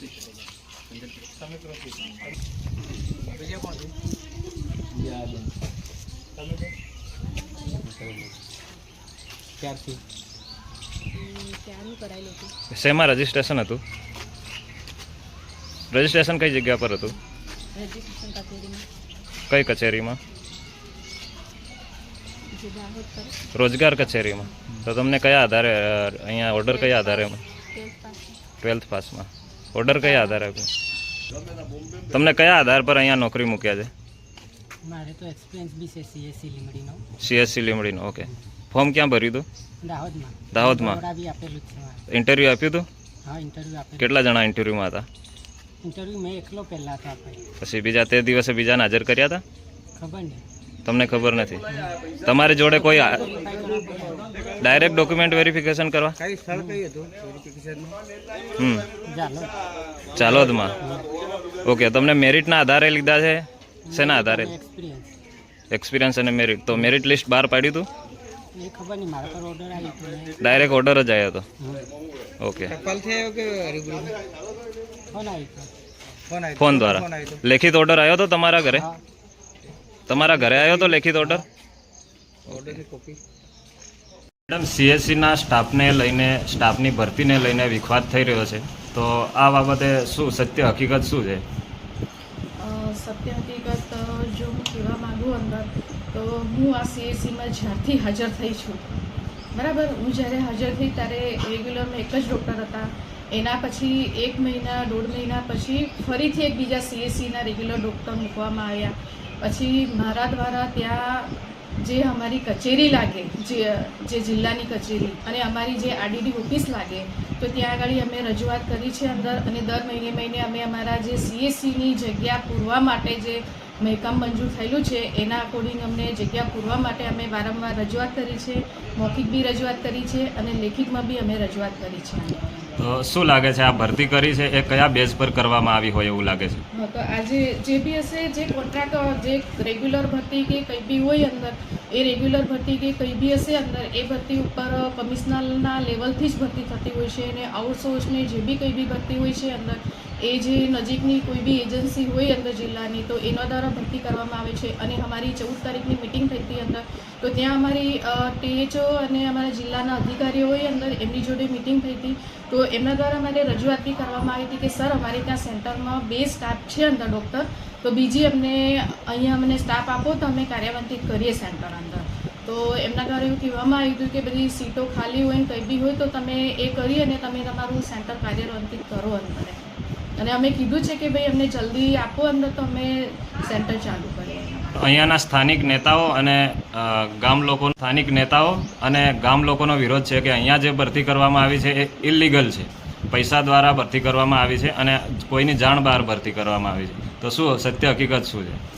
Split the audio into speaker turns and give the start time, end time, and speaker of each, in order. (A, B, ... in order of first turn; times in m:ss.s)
0:01.2-0:02.1 A
0:03.4-0:03.9 A
0:09.6-0:10.0 A
0:12.7-0:13.8 B
0:15.9-0:17.2 B
0:19.5-0:20.2 B
0:23.5-0:27.4 B
0:28.6-0:30.7 B
0:32.1-0:33.9 B
0:34.8-0:37.0 C
0:37.2-0:39.4 B
0:39.8-0:42.0 C
0:40.5-0:41.0 B
0:42.1-0:42.9 B
0:43.2-0:44.1 C
0:44.0-0:45.1 B
0:45.8-0:47.4 C
0:47.6-0:49.4 B
0:50.0-0:50.4 C
0:50.8-0:51.6 B
0:51.7-0:51.9 C
0:52.2-0:53.2 B
0:52.6-0:54.3 C
0:54.6-0:56.2 B
0:56.2-0:57.9 A
0:56.5-0:56.8 C
0:58.6-0:58.9 B
0:59.0-0:59.5 C
1:00.2-1:00.8 B
1:00.2-1:01.0 C
1:01.6-1:04.5 B
1:03.8-1:05.1 C
1:05.7-1:07.9 B
1:08.5-1:10.6 C
1:10.4-1:11.4 B
1:12.4-1:12.7 B
1:12.7-1:14.2 A
1:15.1-1:15.7 C
1:16.3-1:17.4 A
1:16.6-1:18.8 B
1:18.7-1:19.0 C
1:20.1-1:21.4 B
1:20.5-1:21.0 A
1:22.5-1:23.2 A
1:22.5-1:22.8 B
1:24.5-1:31.4 B
1:32.6-1:39.0 D
1:39.5-2:12.6 D
2:12.8-2:16.6 B
2:16.8-3:04.7 D
3:04.8-3:18.6 B